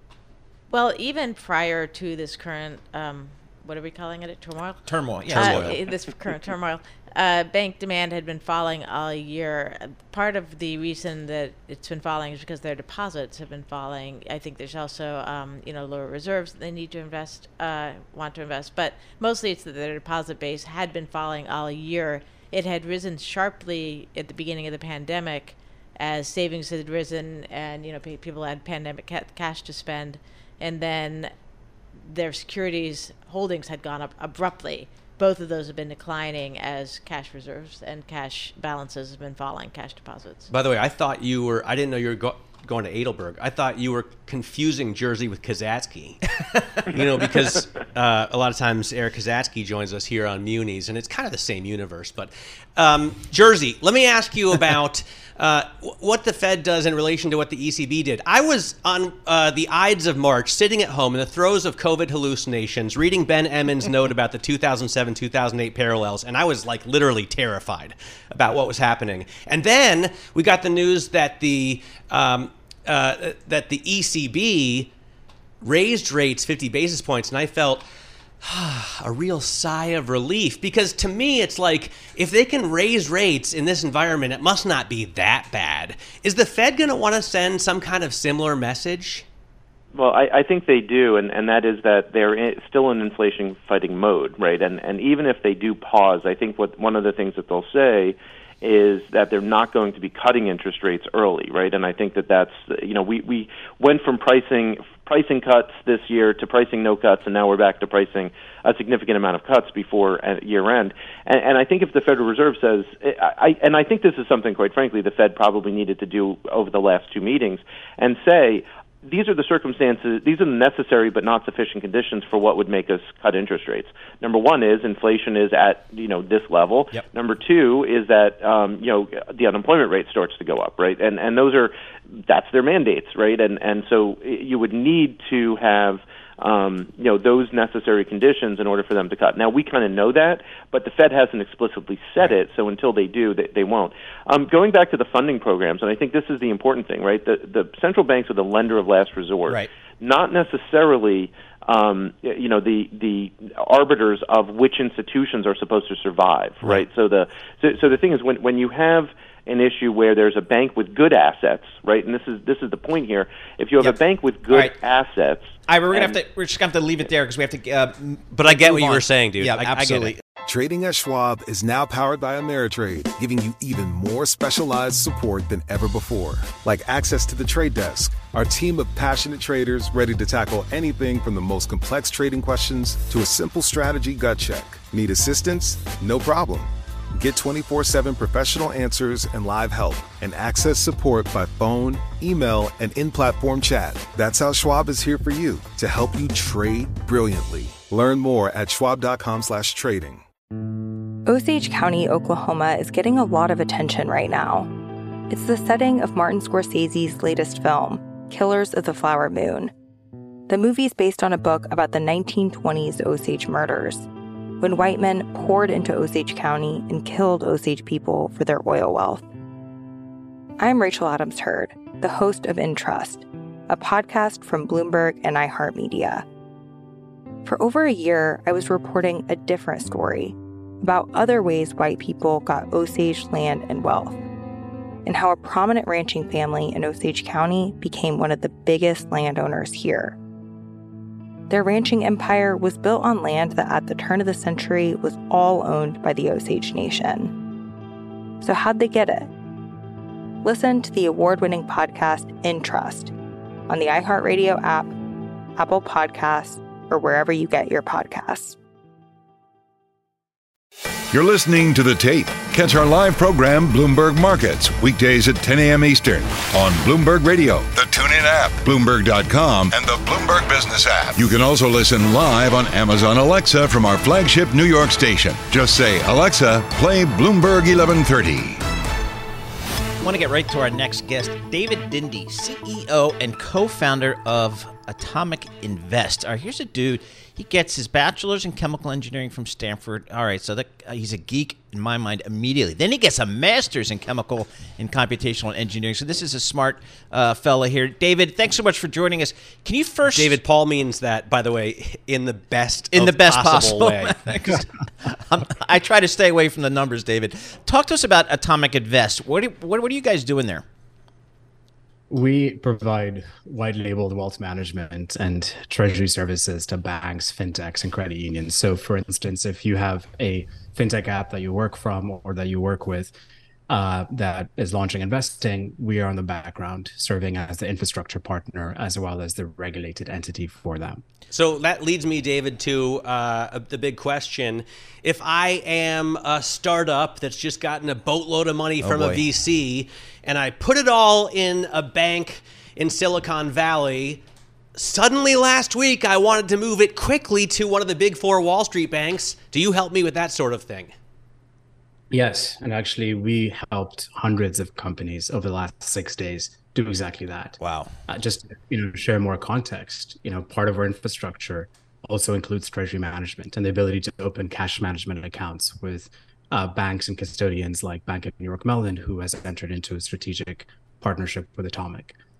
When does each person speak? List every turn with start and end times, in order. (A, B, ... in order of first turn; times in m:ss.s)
0:00.7-0:31.3 A
0:04.9-0:05.8 B
0:05.3-0:05.7 C
0:32.0-0:40.5 A
0:40.5-0:46.2 C
0:46.8-1:14.9 C
1:15.6-1:17.9 C
1:18.4-1:29.2 C
1:29.9-2:45.6 D
2:45.7-2:50.2 B
2:48.3-2:50.2 C
2:50.4-3:20.2 E
3:21.3-3:24.7 F
3:25.3-3:29.7 F
3:30.5-3:34.1 F
3:34.6-3:39.2 F
3:40.6-3:46.2 F
3:47.4-3:54.2 F
3:55.1-4:00.2 F
4:01.5-4:07.3 F
4:08.4-4:09.3 F
4:10.4-4:13.1 F
4:13.7-4:14.9 F
4:15.6-4:18.6 F
4:21.1-4:38.6 G
4:40.0-5:00.4 B
5:00.1-5:04.3 C
5:02.9-5:10.6 B
5:12.1-5:23.1 H
5:23.7-5:31.0 H
5:31.3-5:44.2 C
5:38.8-5:39.2 B
5:44.7-5:50.9 C
5:52.1-6:12.2 H
5:57.6-5:57.9 B